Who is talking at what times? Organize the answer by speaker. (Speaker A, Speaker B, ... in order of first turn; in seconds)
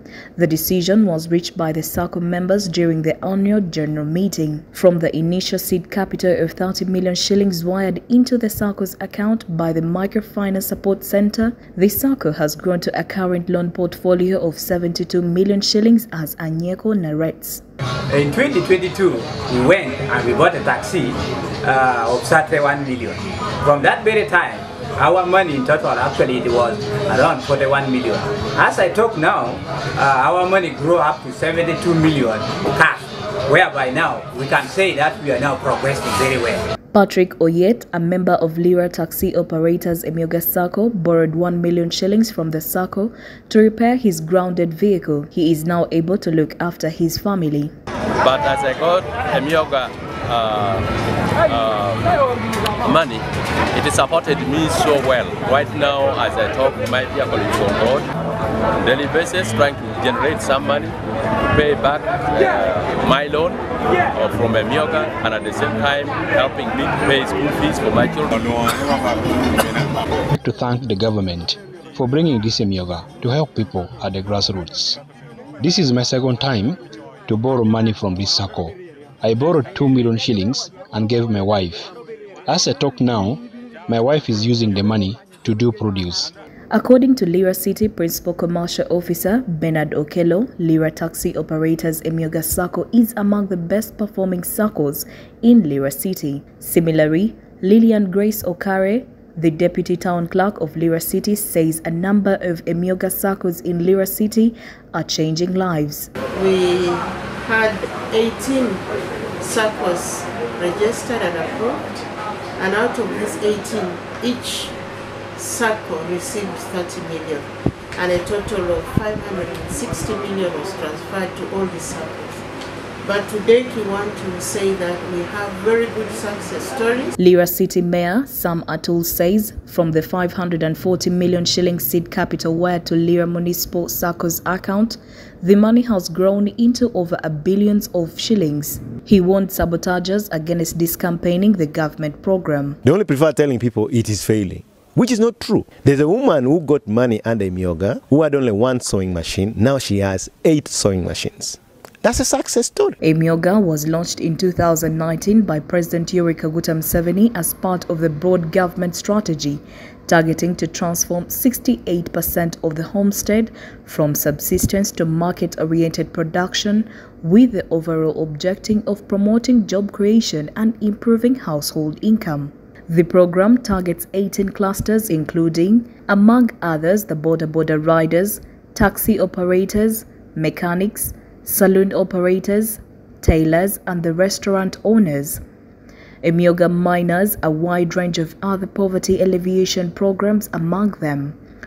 Speaker A: 0.3-17.6, 36.9-47.7, 86.7-106.1, 127.2-142.8, 153.0-185.4, 186.2-191.4
Speaker B: 18.1-36.7
Speaker C: 48.2-50.9, 51.5-52.2, 52.8-53.2, 53.7-58.0, 58.8-60.9, 61.5-68.7
Speaker D: 70.3-75.0, 75.6-81.9, 82.5-86.3
Speaker E: 106.3-108.8, 109.4-112.0, 112.6-114.8, 115.3-122.4, 123.0-127.1
Speaker F: 142.8-152.9